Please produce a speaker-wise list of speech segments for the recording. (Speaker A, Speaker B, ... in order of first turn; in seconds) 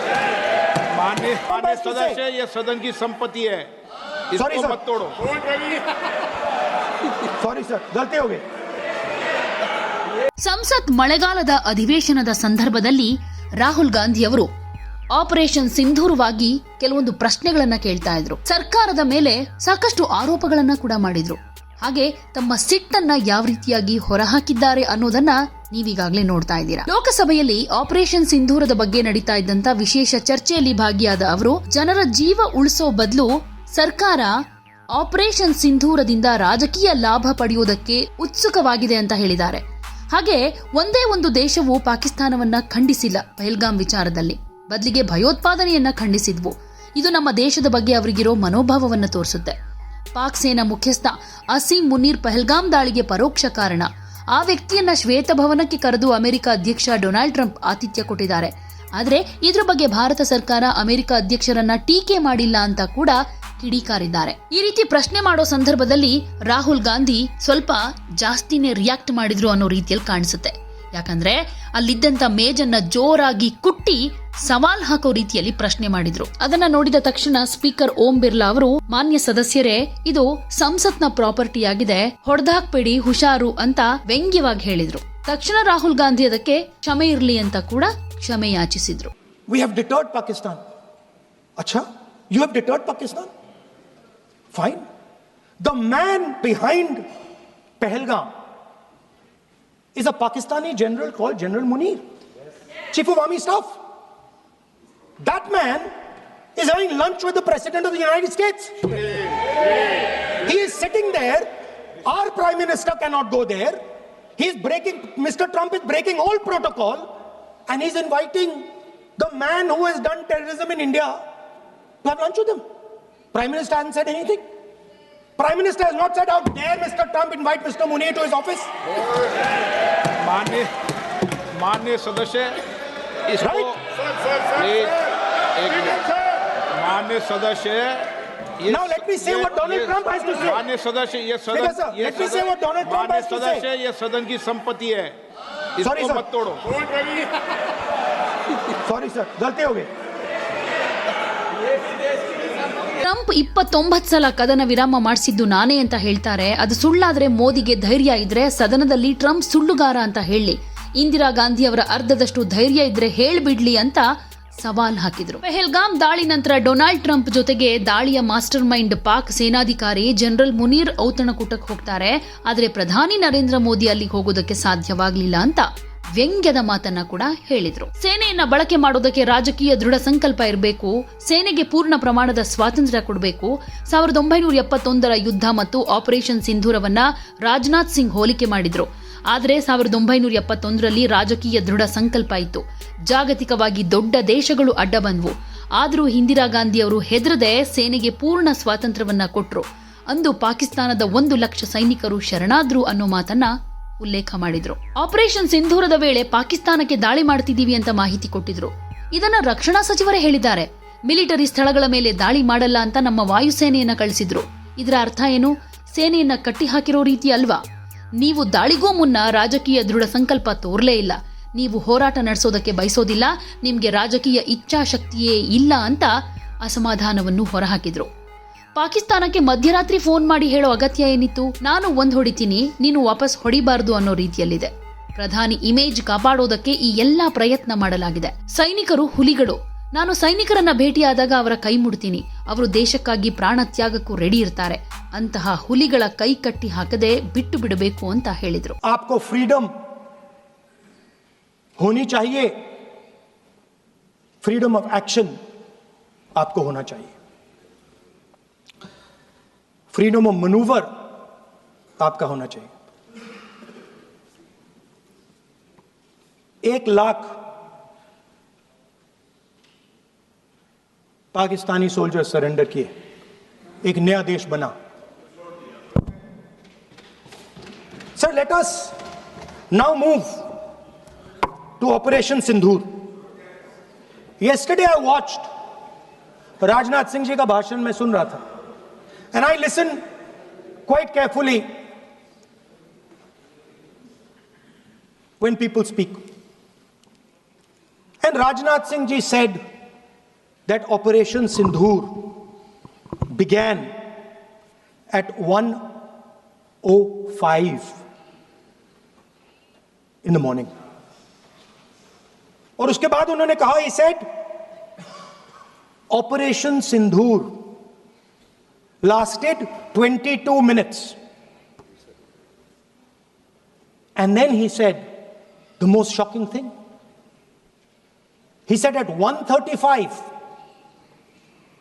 Speaker A: 0.9-3.7, 4.3-5.2, 130.2-130.7, 131.5-132.6, 133.3-133.7, 134.4-135.0, 135.5-136.1, 136.7-145.2, 145.8-146.8
Speaker B: 1.5-2.2, 4.3-4.8, 7.4-8.4, 89.5-90.6, 91.6-93.3, 94.5-94.8, 95.6-97.0, 97.8-98.3, 99.9-102.0, 102.9-103.7, 105.2-105.9, 106.5-108.8, 110.4-111.5, 112.0-113.8, 114.4-117.1, 117.7-118.7, 119.2-121.2, 122.0-122.6, 123.3-124.4, 125.4-128.7, 133.4-133.8, 138.6-140.6, 141.5-143.7, 145.8-146.3, 148.8-149.9, 248.8-249.7, 251.8-252.5, 254.4-255.3, 256.4-257.1, 259.9-260.9, 262.0-262.7, 266.6-267.4, 271.3-272.9, 273.8-274.7, 278.1-278.9, 279.7-280.5, 281.8-282.9, 284.4-285.4, 286.6-288.4, 289.3-290.0, 290.9-291.6, 295.4-296.2, 298.2-299.6, 300.6-302.4, 303.3-303.9, 305.1-305.9, 306.8-308.0, 310.2-310.7, 312.8-314.2, 316.1-317.7, 319.0-321.1, 324.1-325.1, 325.8-326.7, 328.7-330.3
Speaker C: 10.4-14.5, 15.1-34.3, 34.9-49.5, 50.1-89.1, 153.0-164.0, 164.6-203.5, 204.0-217.6, 218.2-226.1, 226.6-228.1, 228.8-248.8